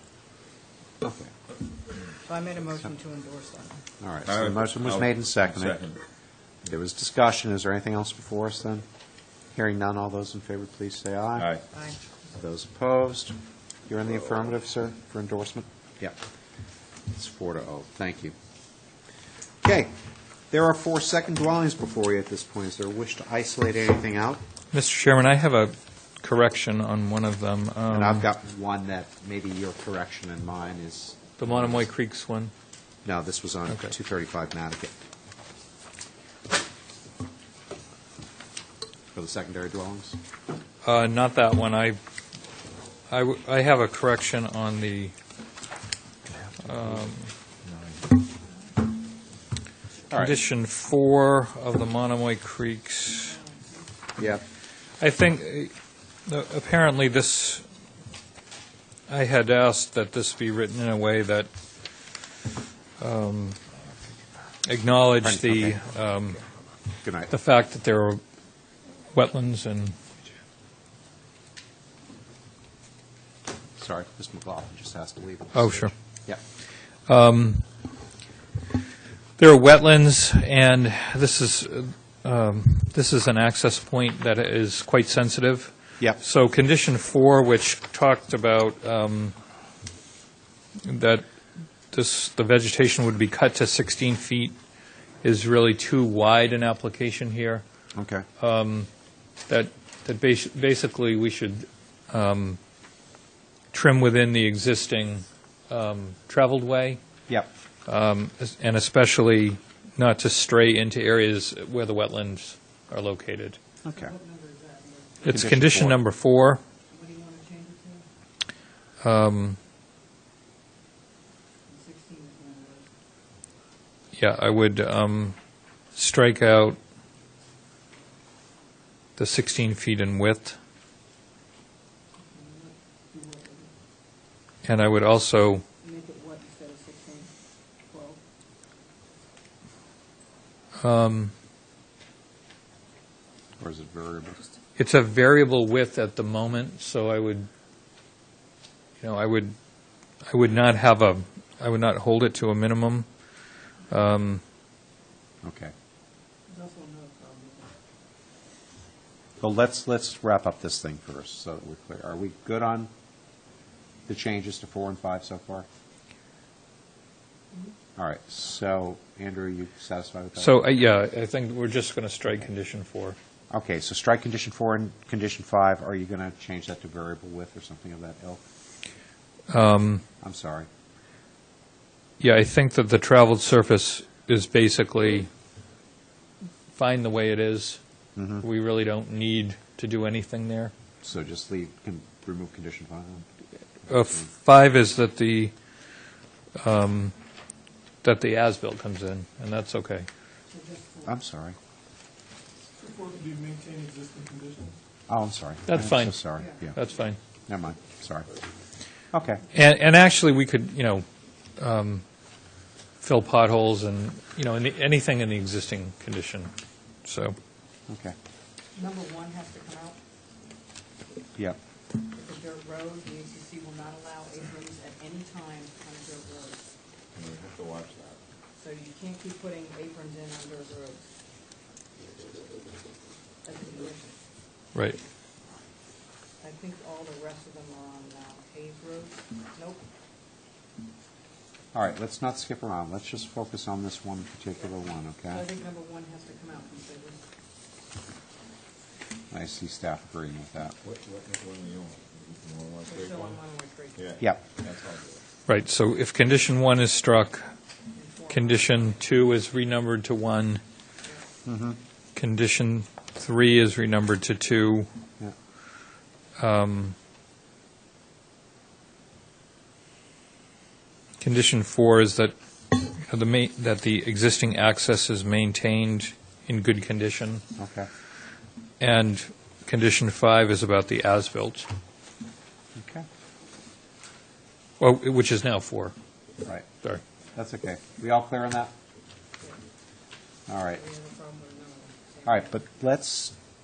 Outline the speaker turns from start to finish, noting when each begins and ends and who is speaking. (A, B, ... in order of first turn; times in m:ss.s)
0:01.0-0:01.3 A
0:02.2-0:03.8 B
0:04.0-0:05.8 A
0:04.2-0:06.0 C
0:06.6-0:08.8 A
0:09.5-0:11.6 A
0:11.4-0:11.6 C
0:11.7-0:12.0 B
0:12.3-0:13.3 A
0:13.9-0:16.2 A
0:17.1-0:18.3 A
0:19.6-0:19.9 A
0:20.5-0:24.4 A
0:24.7-0:28.3 D
0:27.9-0:31.9 A
0:31.4-0:32.5 D
0:33.0-0:34.9 A
0:39.1-0:40.2 A
0:40.8-0:42.0 D
0:43.1-0:45.1 D
0:46.6-0:47.3 D
0:50.1-0:50.4 A
0:50.1-0:53.4 D
0:53.2-0:53.9 B
0:54.2-0:54.4 A
0:55.0-0:55.7 D
0:56.2-0:57.6 D
0:59.1-1:01.5 D
1:03.0-1:03.6 D
1:04.6-1:06.4 D
1:05.2-1:05.8 A
1:07.0-1:07.3 A
1:07.3-1:08.2 D
1:09.1-1:10.0 D
1:13.8-1:16.4 A
1:15.5-1:15.9 D
1:17.1-1:17.6 D
1:19.4-1:29.3 D
1:30.8-1:31.2 D
1:31.9-1:34.5 D
1:35.2-1:37.6 D
1:37.9-1:38.2 A
1:38.4-1:38.9 D
1:39.5-1:42.6 D
1:43.7-1:47.0 D
1:47.8-1:53.6 D
1:53.8-1:54.1 A
1:53.9-1:55.4 B
1:55.2-1:56.6 D
1:55.2-1:56.0 A
1:56.9-1:58.0 B
1:59.0-1:59.6 D
2:01.7-2:02.9 B
2:04.1-2:05.3 D
2:05.9-2:06.8 D
2:09.2-2:10.6 D
2:12.2-2:13.7 B
2:14.6-2:15.6 D
2:15.8-2:17.3 B
2:17.9-2:18.2 B
2:20.8-2:21.3 D
2:23.6-2:24.4 A
2:24.8-2:27.5 D
2:29.0-2:29.5 D
2:30.2-2:33.1 D
2:33.9-2:34.4 D
2:35.4-2:35.7 A
2:36.5-2:37.7 B
2:39.4-2:42.9 A
2:44.1-2:45.6 A
2:48.0-2:50.6 A
2:50.4-2:53.2 D
2:53.5-2:58.4 A
2:59.5-3:00.0 D
3:00.2-3:00.7 A
3:02.2-3:05.3 D
3:06.7-3:07.8 D
3:08.2-3:08.4 A
3:08.4-3:10.7 D
3:11.0-3:13.3 A
3:13.8-3:14.3 A
3:13.9-3:15.5 D
3:16.6-3:17.1 D
3:18.0-3:20.1 D
3:20.5-3:21.1 B
3:21.0-3:21.6 A
3:22.8-3:24.7 E
3:25.1-3:26.8 A
3:25.7-3:26.2 D
3:26.7-3:27.2 D
3:27.5-3:28.3 A
3:29.1-3:29.4 A
3:29.5-3:31.0 D
3:31.6-3:32.0 D
3:33.0-3:36.5 D
3:37.0-3:37.4 D
3:37.9-3:38.1 A
3:38.7-3:40.0 B
3:42.0-3:46.6 B
3:47.1-3:48.2 C
3:48.6-3:51.0 B
3:53.4-3:54.1 B
3:54.7-3:55.0 D
3:56.4-3:59.8 B
4:01.7-4:05.4 A
4:05.3-4:07.2 B
4:09.3-4:10.8 A
4:10.8-4:13.4 C
4:12.8-4:14.1 B
4:14.0-4:15.2 C
4:15.4-4:17.5 D
4:17.9-4:18.9 B
4:18.3-4:20.6 D
4:21.4-4:21.8 A
4:22.1-4:24.9 D
4:26.4-4:26.9 D
4:31.2-4:32.3 D
4:33.0-4:37.4 D
4:37.6-4:37.9 A
4:38.8-4:41.7 D
4:42.7-4:43.0 A
4:44.8-4:45.9 D
4:47.3-4:48.7 A
4:50.5-4:50.8 A
4:50.7-4:52.5 B
4:52.2-4:53.3 A